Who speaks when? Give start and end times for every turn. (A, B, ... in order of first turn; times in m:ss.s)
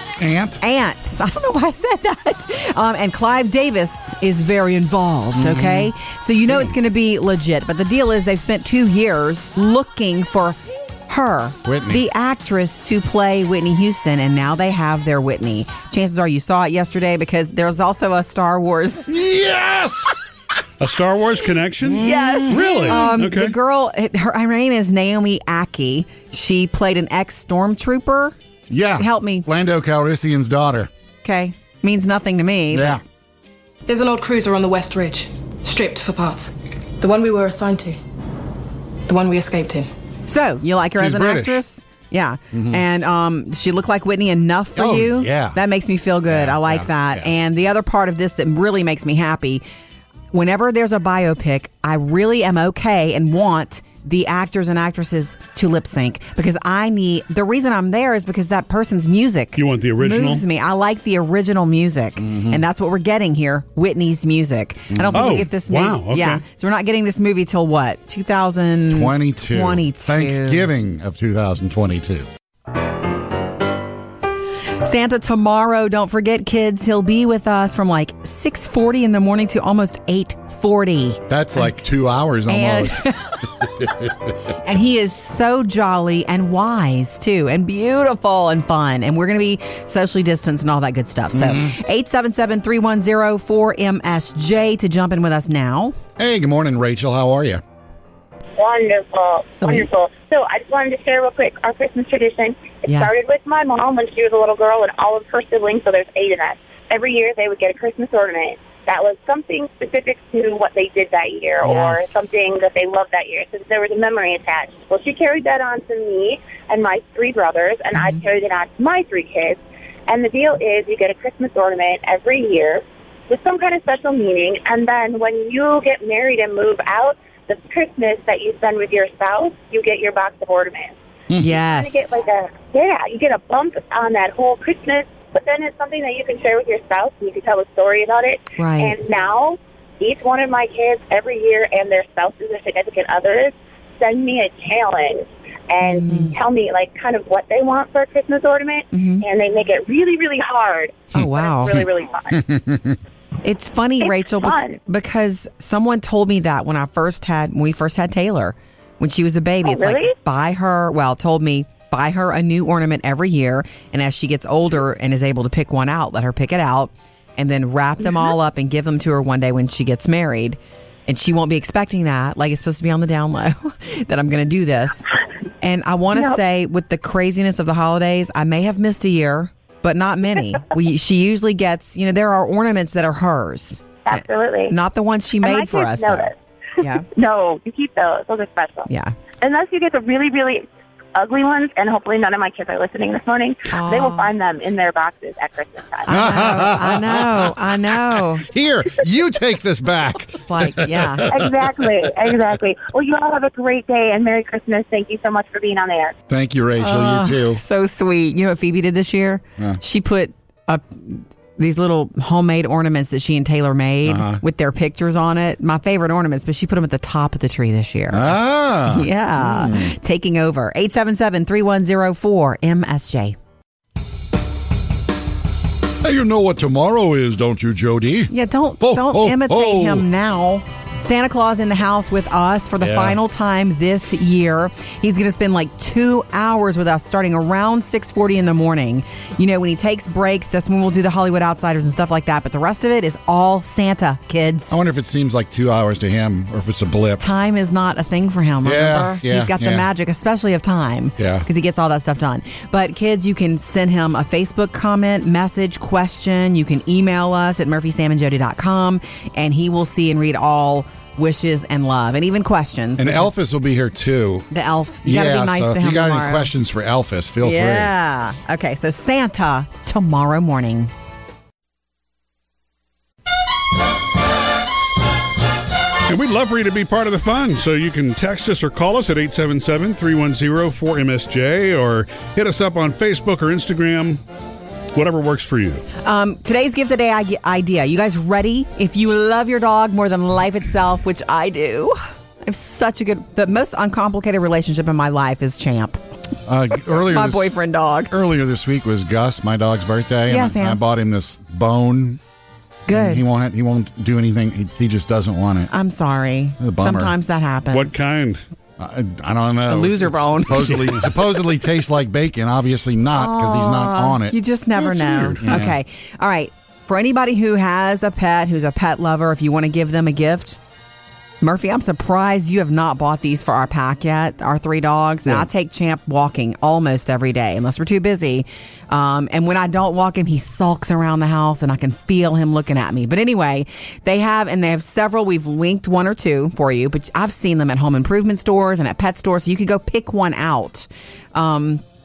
0:00.2-0:00.6 A
0:00.6-0:19.1 B
0:05.4-0:05.9 A
0:11.6-0:12.0 A
0:19.1-0:20.1 A
0:20.8-0:23.6 C
0:21.8-0:23.2 A
0:21.9-0:28.3 B
0:28.7-0:30.9 A
0:29.0-0:29.5 B
0:31.2-0:33.0 B
0:32.7-0:33.0 A
0:33.9-0:38.0 D
0:39.1-0:39.9 D
0:40.2-0:49.6 B
0:41.0-0:41.6 A
0:42.5-0:42.8 A
0:44.8-0:45.6 A
0:46.3-0:47.3 A
0:50.3-1:10.7 B
0:59.6-1:00.4 C
1:02.2-1:02.6 A
1:04.9-1:05.4 A
1:05.1-1:06.4 C
1:08.9-1:12.3 A
1:14.8-1:21.2 B
1:21.3-1:23.0 A
1:22.5-1:23.9 B
1:23.8-1:24.1 A
1:24.5-1:36.0 B
1:31.3-1:31.8 A
1:36.2-1:37.6 A
1:38.6-2:10.9 E
1:39.6-1:39.9 B
1:42.9-1:43.2 B
1:51.6-1:52.1 B
2:11.3-2:11.6 A
2:11.4-2:12.2 B
2:11.6-2:32.5 E
2:18.6-2:19.0 B
2:25.8-2:26.4 B
2:28.9-2:29.2 B
2:31.1-2:31.8 B
2:31.2-2:33.0 A
2:33.4-2:55.0 B
2:34.0-2:34.8 E
2:39.6-2:40.2 E
2:55.6-3:07.1 B
2:56.1-2:56.4 E
3:04.0-3:04.8 E
3:05.4-3:08.9 E
3:08.9-3:09.1 B
3:09.4-3:16.2 E
3:13.7-3:14.3 B
3:16.1-3:18.4 B
3:16.1-3:22.3 A
3:20.4-3:21.5 B
3:21.3-3:26.2 E
3:26.3-3:27.6 A
3:26.8-3:43.4 B
3:34.0-3:34.4 A
3:38.1-3:40.0 A
3:46.0-3:50.0 A
3:48.3-4:04.7 B
3:52.8-3:53.2 A
4:04.7-4:07.2 A
4:07.2-4:23.4 B
4:08.6-4:09.9 A
4:11.2-4:11.4 A
4:23.0-4:24.5 A
4:24.5-4:26.5 B
4:25.0-4:27.9 A
4:27.4-4:30.9 B
4:36.0-4:44.2 C
4:44.9-4:45.8 C
4:46.0-4:56.0 B
4:56.4-4:57.5 A
4:57.0-4:58.1 B
4:58.1-5:02.2 A
5:00.3-5:00.8 B
5:02.9-5:03.2 B
5:02.9-5:05.7 A
5:05.7-5:08.0 B
5:06.6-5:07.1 A
5:07.7-5:08.4 C
5:08.8-5:14.4 A
5:09.7-5:10.9 B
5:10.6-5:11.0 C
5:13.1-5:20.6 B
5:14.7-5:15.6 C
5:15.4-5:15.8 A
5:21.4-5:41.8 B